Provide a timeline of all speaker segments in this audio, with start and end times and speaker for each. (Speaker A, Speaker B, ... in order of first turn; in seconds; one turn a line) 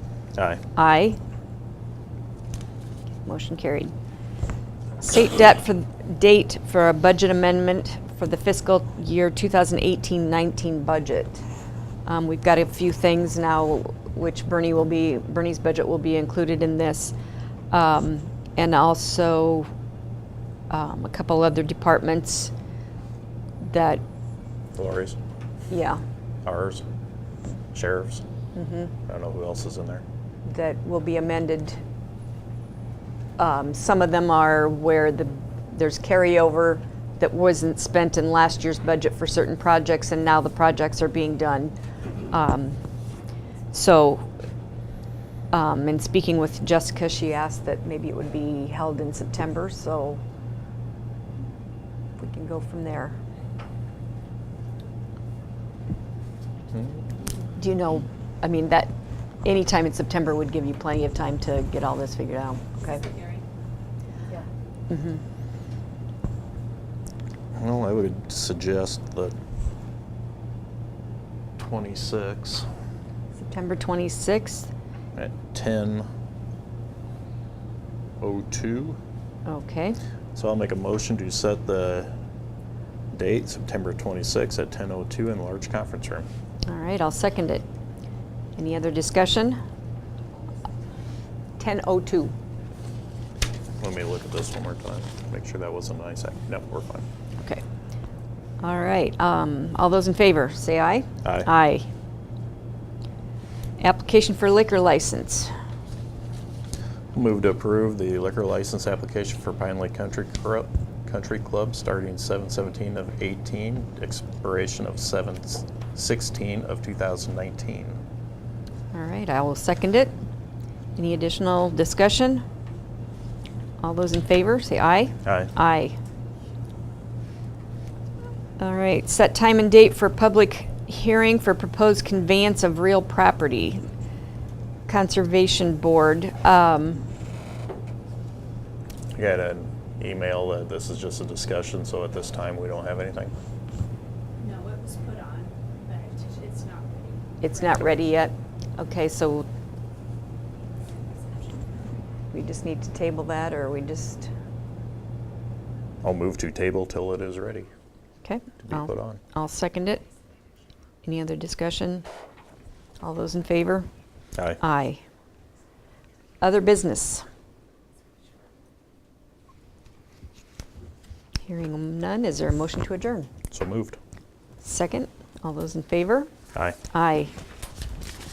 Speaker A: 0.3-0.6
Speaker B: 0.7-1.2
Speaker B: 3.2-3.9
Speaker B: 5.0-11.4
Speaker B: 12.1-17.1
Speaker B: 17.7-19.7
Speaker B: 20.7-22.5
Speaker B: 23.6-24.0
Speaker A: 24.7-25.2
Speaker B: 25.7-26.0
Speaker A: 26.4-26.8
Speaker A: 27.7-28.2
Speaker B: 28.6-28.9
Speaker A: 29.1-30.0
Speaker B: 30.5-31.8
Speaker B: 33.4-41.7
Speaker B: 42.3-42.8
Speaker B: 43.7-44.3
Speaker B: 45.5-50.2
Speaker B: 52.2-53.1
Speaker B: 57.5-58.9
Speaker B: 59.4-63.1
Speaker C: 63.0-63.4
Speaker B: 64.9-65.2
Speaker A: 67.5-69.3
Speaker A: 71.6-72.7
Speaker B: 73.3-74.7
Speaker A: 75.1-76.1
Speaker A: 78.2-79.0
Speaker B: 79.5-80.0
Speaker A: 80.3-82.1
Speaker A: 83.1-86.3
Speaker B: 86.7-87.6
Speaker B: 88.5-89.6
Speaker B: 91.6-92.3
Speaker A: 93.8-97.0
Speaker B: 98.6-101.9
Speaker B: 103.8-105.5
Speaker A: 107.1-118.0
Speaker B: 118.9-120.1
Speaker B: 121.0-122.4
Speaker B: 123.8-126.0
Speaker A: 125.2-125.5
Speaker B: 128.6-133.8
Speaker B: 134.9-137.0
Speaker A: 139.1-143.3
Speaker C: 144.4-148.0
Speaker B: 147.4-149.4
Speaker B: 152.3-154.3
Speaker A: 156.0-157.7
Speaker B: 158.2-160.0
Speaker A: 158.6-159.2
Speaker B: 161.0-162.1
Speaker B: 163.0-163.9
Speaker B: 164.6-165.0
Speaker B: 166.4-167.2
Speaker B: 171.4-173.3
Speaker A: 173.5-174.0
Speaker B: 174.6-176.3
Speaker B: 176.9-177.3